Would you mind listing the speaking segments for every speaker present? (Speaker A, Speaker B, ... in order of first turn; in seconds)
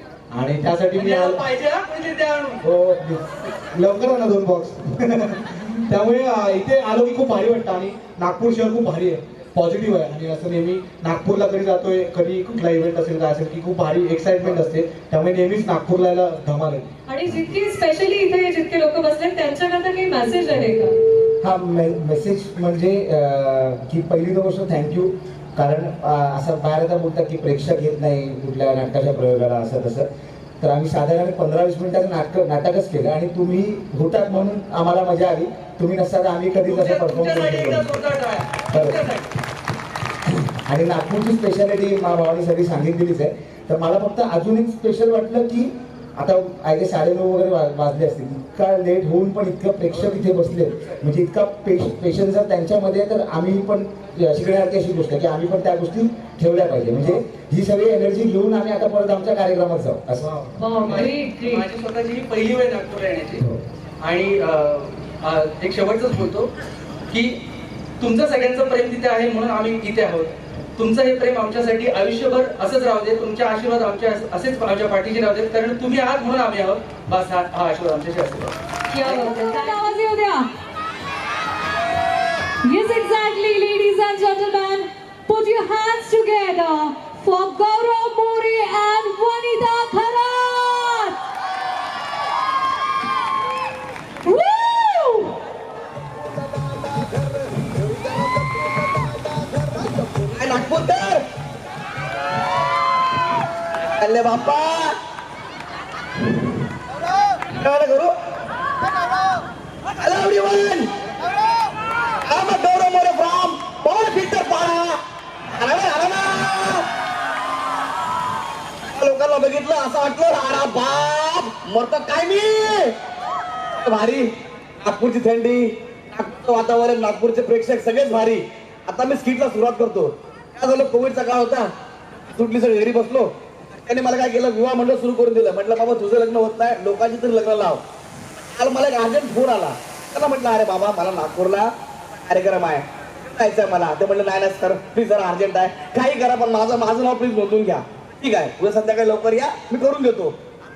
Speaker A: 0.3-1.4, 2.6-16.9
Speaker B: 0.9-2.6, 36.6-39.3, 60.9-63.4, 64.0-66.5, 67.1-67.4, 68.0-79.3
Speaker C: 17.1-20.9, 60.5-61.7, 78.9-80.5, 82.6-91.2, 94.2-95.3
Speaker D: 21.4-30.1, 30.6-38.0, 38.7-39.1, 40.3-60.4
Speaker E: 96.5-98.9, 99.6-101.2, 104.0-105.0, 107.5-108.1, 110.0-110.9, 112.2-115.0, 115.6-116.9, 118.9-122.9, 123.8-124.3, 124.8-131.7, 132.4-137.8, 138.6-141.7, 142.2-150.4